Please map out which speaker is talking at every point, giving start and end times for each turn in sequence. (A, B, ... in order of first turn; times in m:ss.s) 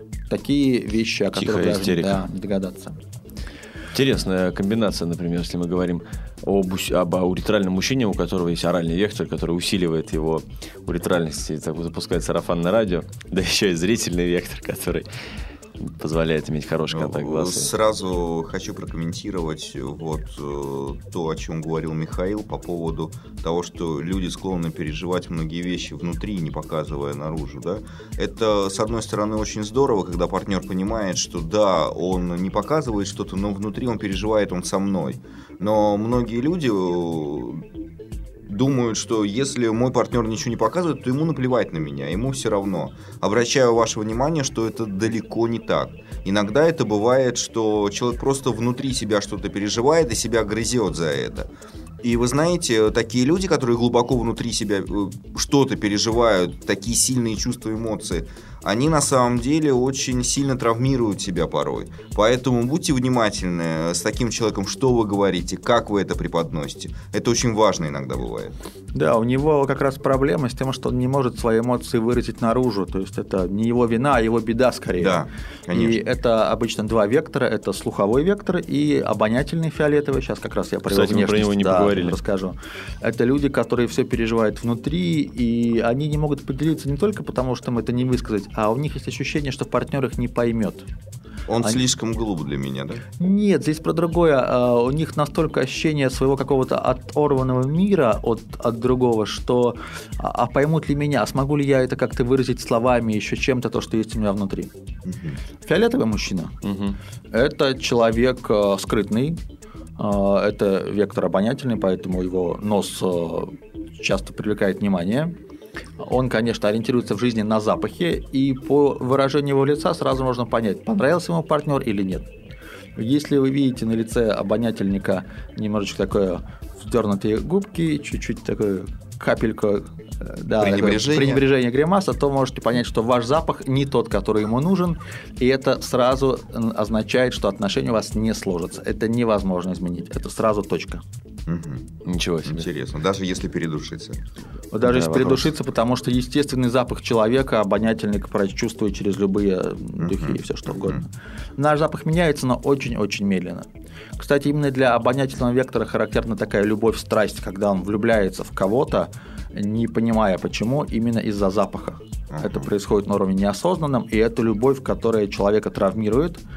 0:00.3-0:03.0 A
0:01.4-0:02.2 B
0:03.9-0:15.1 B
0:15.8-0:17.7 B
0:16.9-0:37.6 C
0:38.5-0:51.5 C
0:52.0-1:08.5 C
1:08.9-1:30.8 A
1:15.0-1:16.0 C
1:20.9-1:22.2 B
1:31.5-1:33.0 C
1:33.2-1:44.7 A
1:45.0-1:45.4 C
1:45.6-1:46.5 A
1:46.6-1:47.0 B
1:47.3-1:49.4 A
1:50.0-1:55.4 A
1:56.0-2:02.3 A
2:03.0-2:21.0 A
2:10.6-2:11.4 C
2:21.5-2:21.9 C
2:22.0-2:22.6 B
2:22.4-2:24.2 C
2:24.7-2:33.6 A
2:24.8-2:25.5 B
2:30.0-2:31.0 C
2:34.2-2:46.4 A
2:42.3-2:42.7 C